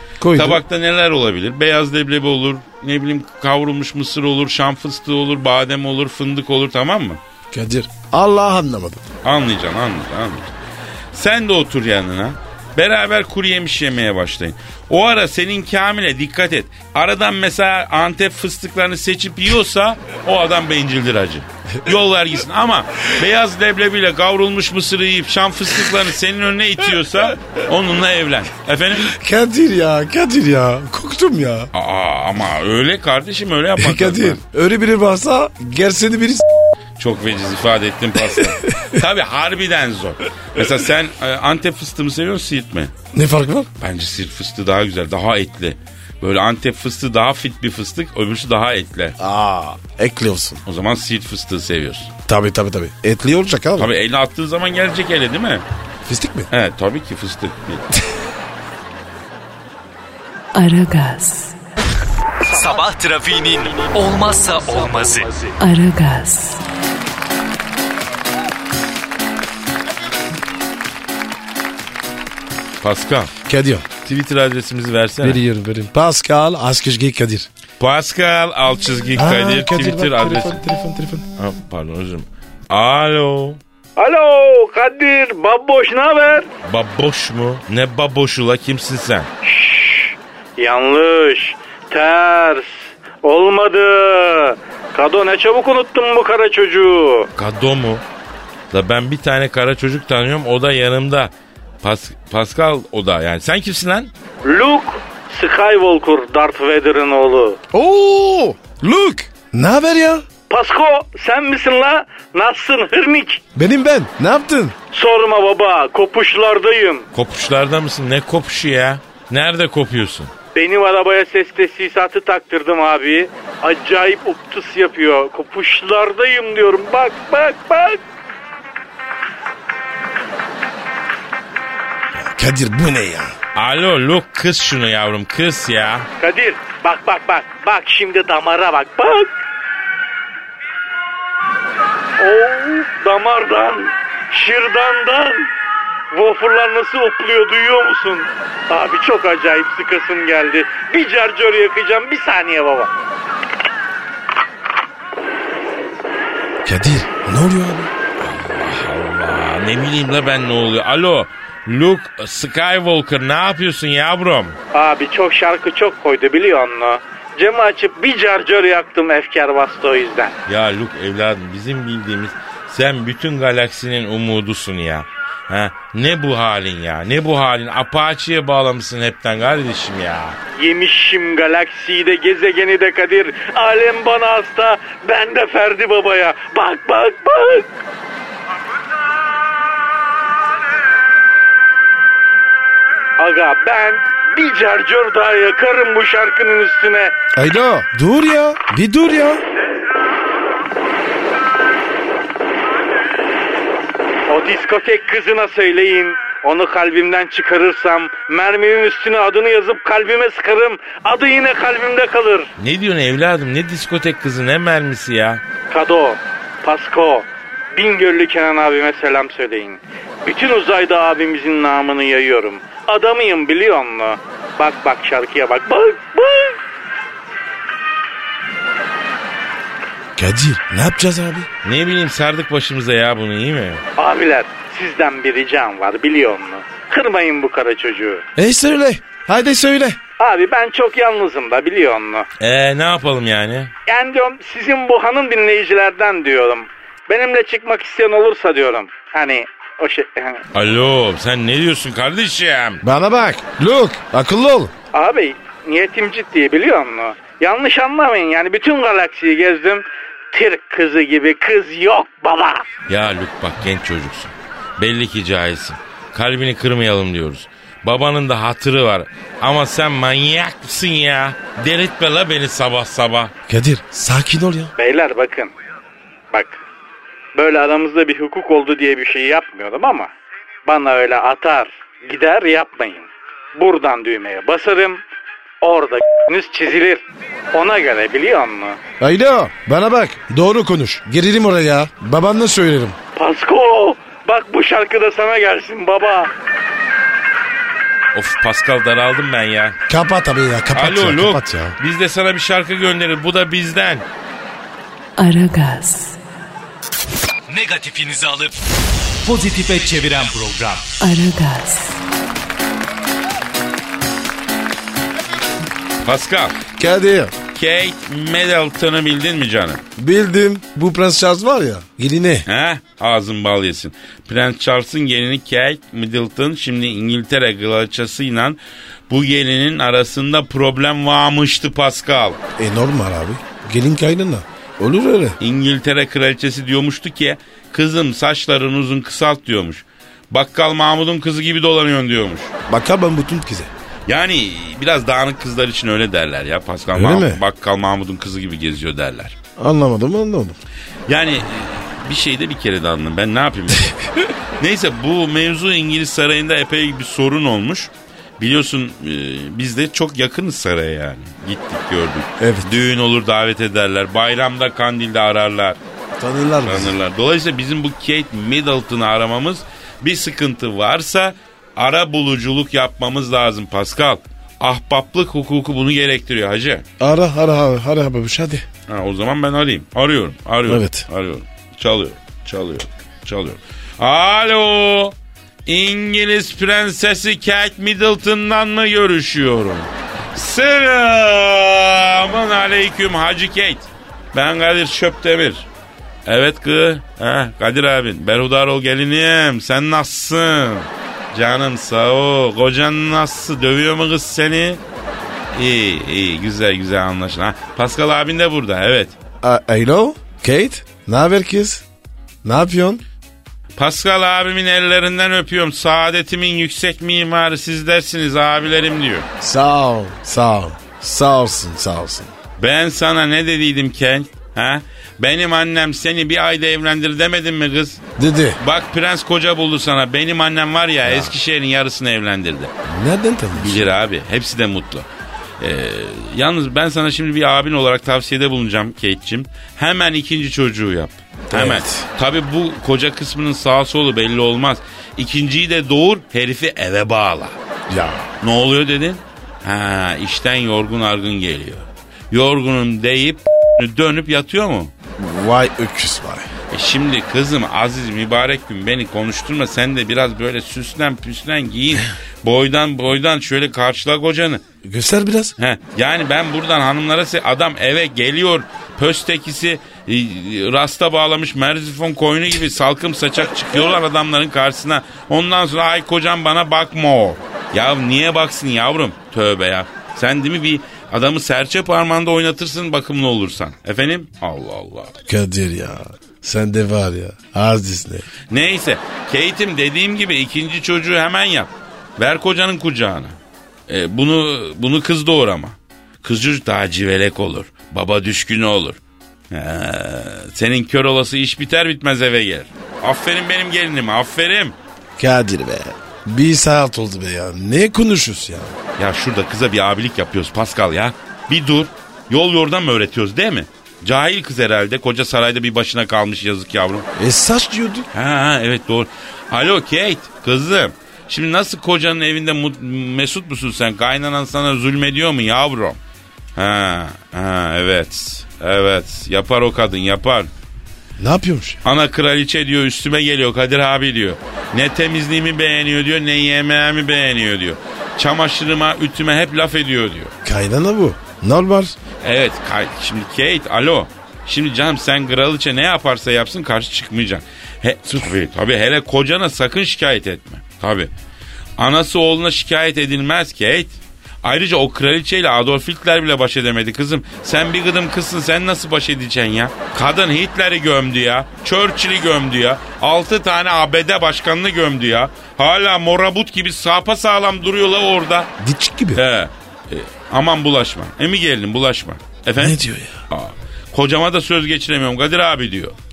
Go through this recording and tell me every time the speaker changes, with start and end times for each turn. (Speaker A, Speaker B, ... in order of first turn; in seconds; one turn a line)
Speaker A: 0.2-0.6
Speaker B: 0.3-7.2
Speaker A: 7.5-9.0
Speaker B: 9.2-10.5
Speaker B: 11.1-29.1
Speaker A: 29.0-31.7
Speaker B: 31.7-34.4
Speaker A: 33.8-36.5
Speaker B: 37.0-42.9
Speaker A: 38.2-39.0
Speaker A: 43.1-43.7
Speaker B: 43.8-49.2
Speaker A: 49.2-50.6
Speaker B: 50.6-52.1
Speaker A: 52.3-53.9
Speaker B: 53.8-55.6
Speaker A: 56.1-56.5
Speaker B: 56.5-57.9
Speaker C: 60.5-61.6
Speaker D: 62.5-65.5
Speaker C: 65.6-66.6
Speaker B: 72.8-73.3
Speaker A: 73.5-73.9
Speaker B: 74.0-75.4
Speaker A: 75.2-77.5
Speaker B: 77.8-80.6
Speaker A: 79.1-81.3
Speaker B: 81.4-83.6
Speaker E: 84.0-86.5
Speaker B: 86.7-89.3
Speaker E: 89.4-97.3
Speaker B: 97.4-98.0
Speaker B: 98.7-104.1
Speaker E: 104.4-107.6
Speaker A: 107.7-110.3
Speaker E: 110.5-113.4
Speaker A: 113.5-114.8
Speaker E: 114.9-117.1
Speaker B: 117.1-120.3
Speaker E: 120.5-128.0
Speaker A: 132.2-133.4
Speaker B: 133.6-136.1
Speaker E: 136.2-139.3
Speaker E: 142.2-145.5
Speaker E: 146.1-152.9
Speaker A: 156.7-157.9
Speaker B: 158.2-164.6
Speaker E: 164.7-170.4
Speaker B: 170.5-180.4
Speaker E: 180.5-187.7
Speaker E: 193.2-197.1
Speaker A: 197.3-199.4
Speaker E: 204.3-212.5
Speaker B: 212.6-215.4
Speaker E: 215.7-226.6
Speaker A: 230.2-231.5
Speaker B: 231.7-233.8
Speaker E: 234.0-238.2
Speaker A: 238.4-240.0
Speaker E: 240.2-242.3
Speaker B: 242.4-243.7
Speaker E: 243.9-250.4
Speaker B: 250.5-252.8
Speaker A: 252.8-254.7
Speaker E: 254.9-262.6
Speaker B: 262.9-273.3
Speaker A: 273.5-274.7
Speaker E: 274.8-275.5
Speaker E: 276.3-276.6
Speaker E: 277.4-280.1
Speaker E: 280.7-285.0
Speaker E: 285.6-288.8
Speaker A: 289.0-293.0
Speaker E: 293.2-296.3
Speaker B: 298.1-299.8
Speaker A: 299.9-301.8
Speaker B: 300.7-304.1
Speaker C: 305.2-306.2
Speaker D: 307.5-308.5
Speaker D: 309.2-310.8
Speaker C: 311.0-312.0
Speaker B: 316.0-316.6
Speaker A: 316.8-317.3
Speaker B: 317.5-319.8
Speaker A: 320.0-322.5
Speaker B: 322.5-332.4
Speaker A: 332.6-335.4
Speaker B: 335.4-342.5
Speaker A: 342.7-343.7
Speaker B: 344.1-349.4
Speaker A: 346.9-347.4
Speaker A: 349.6-350.6
Speaker B: 351.1-354.0
Speaker B: 354.6-365.8
Speaker A: 362.4-362.8
Speaker A: 366.2-367.0
Speaker B: 366.6-376.9
Speaker A: 377.0-378.6
Speaker B: 378.9-385.1
Speaker A: 380.7-381.1
Speaker B: 385.7-395.7
Speaker B: 396.3-404.8
Speaker B: 405.5-409.1
Speaker A: 409.4-411.9
Speaker A: 412.4-413.0
Speaker B: 413.8-419.3
Speaker A: 419.4-422.3
Speaker B: 422.6-428.0
Speaker A: 428.2-428.6
Speaker B: 428.6-432.7
Speaker A: 431.1-431.3
Speaker A: 432.9-433.9
Speaker B: 433.6-435.1
Speaker B: 435.6-447.6
Speaker A: 441.5-442.1
Speaker A: 447.9-448.3
Speaker B: 448.4-454.9
Speaker A: 455.2-456.5
Speaker B: 456.7-464.6
Speaker A: 464.8-465.5
Speaker B: 465.6-485.1
Speaker A: 485.3-488.3
Speaker B: 488.5-493.4
Speaker B: 493.9-499.0
Speaker B: 499.5-504.8
Speaker A: 505.2-508.8
Speaker B: 509.0-517.1
Speaker A: 517.2-518.1
Speaker B: 518.1-526.0
Speaker B: 526.6-530.5
Speaker A: 531.2-531.8
Speaker B: 531.8-540.3
Speaker A: 540.4-542.0
Speaker B: 542.2-551.1
Speaker B: 551.8-568.5
Speaker A: 568.6-569.2
Speaker B: 569.1-576.0
Speaker A: 572.6-573.2